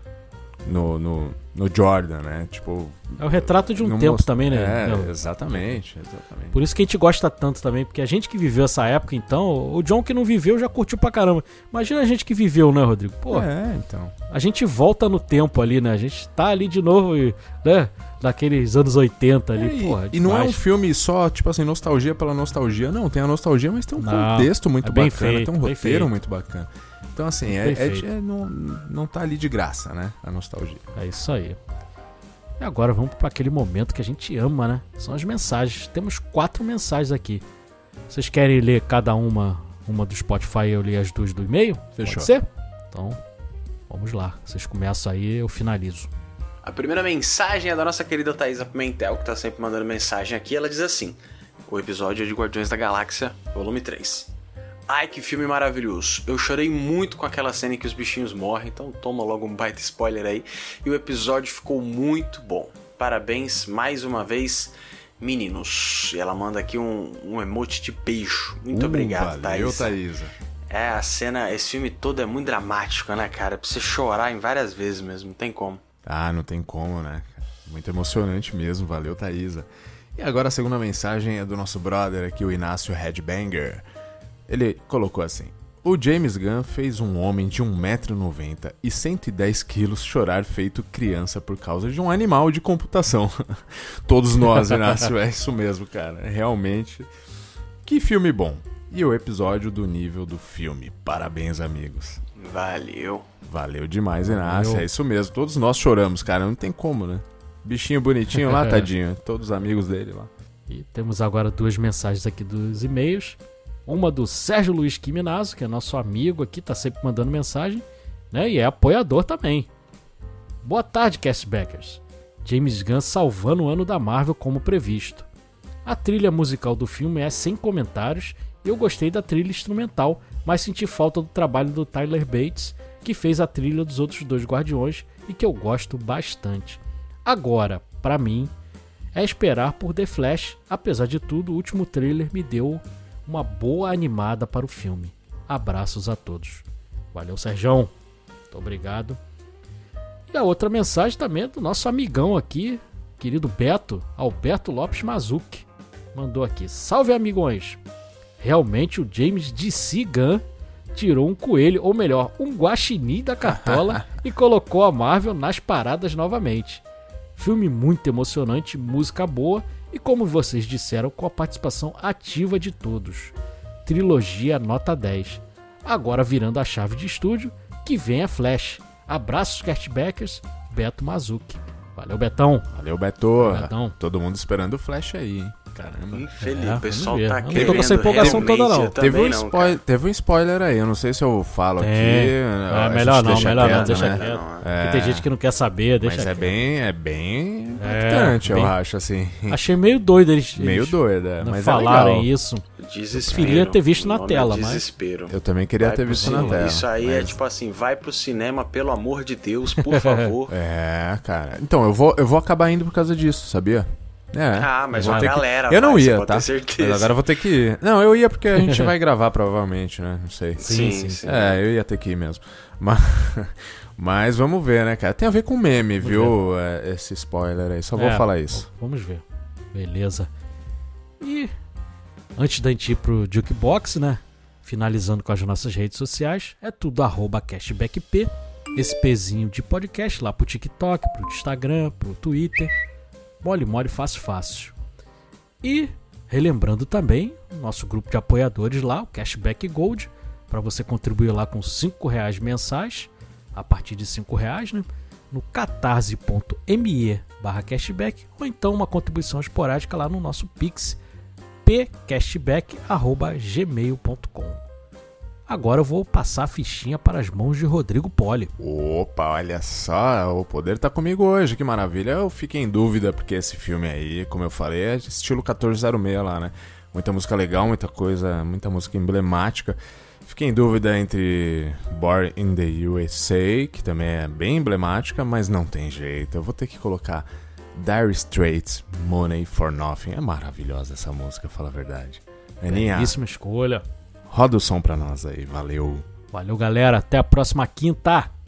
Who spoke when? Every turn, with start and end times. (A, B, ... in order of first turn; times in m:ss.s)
0:00.6-0:06.6 A
0:03.2-0:05.8 B
0:06.5-0:13.5 B
0:13.3-0:14.1 A
0:14.3-0:20.6 B
0:19.6-0:30.8 A
0:24.0-0:26.1 B
0:27.5-0:28.0 B
0:31.0-0:31.6 B
0:32.6-0:37.4 B
0:38.1-0:43.2 B
0:42.0-0:42.3 A
0:43.9-0:46.1 B
0:46.6-0:54.3 C
0:54.9-1:10.0 C
1:08.7-1:10.3 A
1:10.7-1:15.8 C
1:16.0-1:23.8 A
1:24.5-1:37.1 A
1:37.8-1:42.2 A
1:42.4-1:43.3 C
1:43.4-1:50.3 A
1:44.2-1:44.8 B
1:48.5-1:48.8 B
1:50.7-1:59.7 B
2:00.6-2:05.3 B
2:05.8-2:18.5 B
2:19.1-2:27.9 B
2:28.5-2:29.2 B
2:30.3-2:37.8 B
2:38.4-2:40.4 B
2:40.9-2:46.8 B
2:43.4-2:44.1 A
2:47.4-2:53.3 B
2:53.8-3:02.7 B
3:02.7-3:06.3 A
3:03.4-3:04.0 B
3:06.0-3:09.8 C
3:06.4-3:08.9 B
3:07.5-3:15.3 A
3:11.8-3:16.5 B
3:13.2-3:14.7 C
3:16.0-3:19.6 A
3:17.8-3:18.7 B
3:19.5-3:22.6 B
3:20.5-3:22.3 A
3:22.8-3:30.5 C
3:23.2-3:24.8 B
3:25.3-3:27.4 A
3:26.1-3:26.6 B
3:29.9-3:30.3 B
3:30.5-3:48.7 A
3:34.5-3:37.2 C
3:35.0-3:35.4 B
3:38.6-3:38.9 B
3:40.6-3:41.5 C
3:40.6-3:41.2 B
3:46.0-3:46.3 B
3:47.9-3:50.3 B
3:51.2-3:51.5 B
3:52.4-4:02.7 B
4:03.4-4:04.7 B
4:05.6-4:21.0 B
4:21.6-4:24.6 B
4:25.5-4:28.5 B
4:28.6-4:53.2 A
4:52.7-4:53.8 B
4:54.3-4:56.1 A
4:56.3-4:58.3 B